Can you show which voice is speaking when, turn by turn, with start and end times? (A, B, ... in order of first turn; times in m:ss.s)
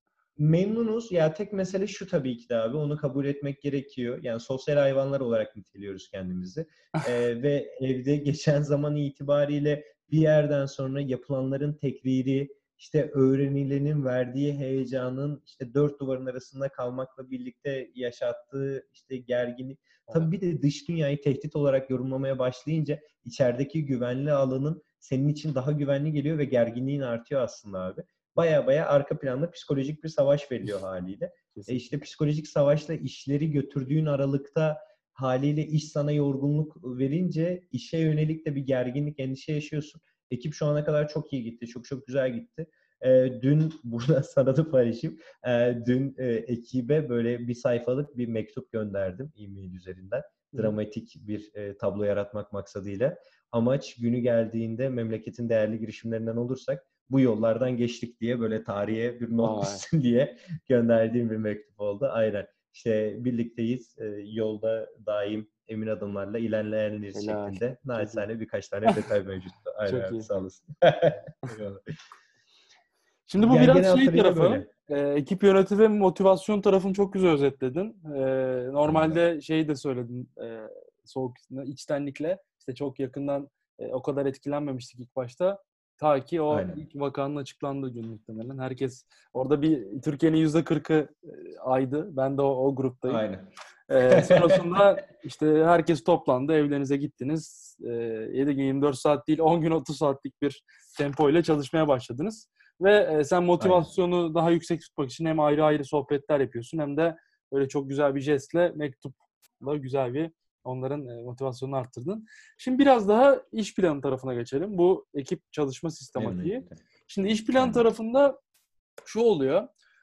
0:00.4-1:11.9 A
0:31.6-0:31.9 B
0:59.4-0:59.8 B
1:07.1-1:08.3 B
1:09.9-1:10.3 B
1:13.3-1:33.2 B
1:13.4-1:14.7 A
1:18.8-1:19.2 A
1:26.5-1:26.8 A
1:33.1-1:33.5 A
1:33.9-1:58.4 B
1:34.1-1:34.6 A
1:43.6-1:43.9 A
1:56.2-1:56.8 A
1:57.6-1:57.8 A
1:59.1-1:59.7 B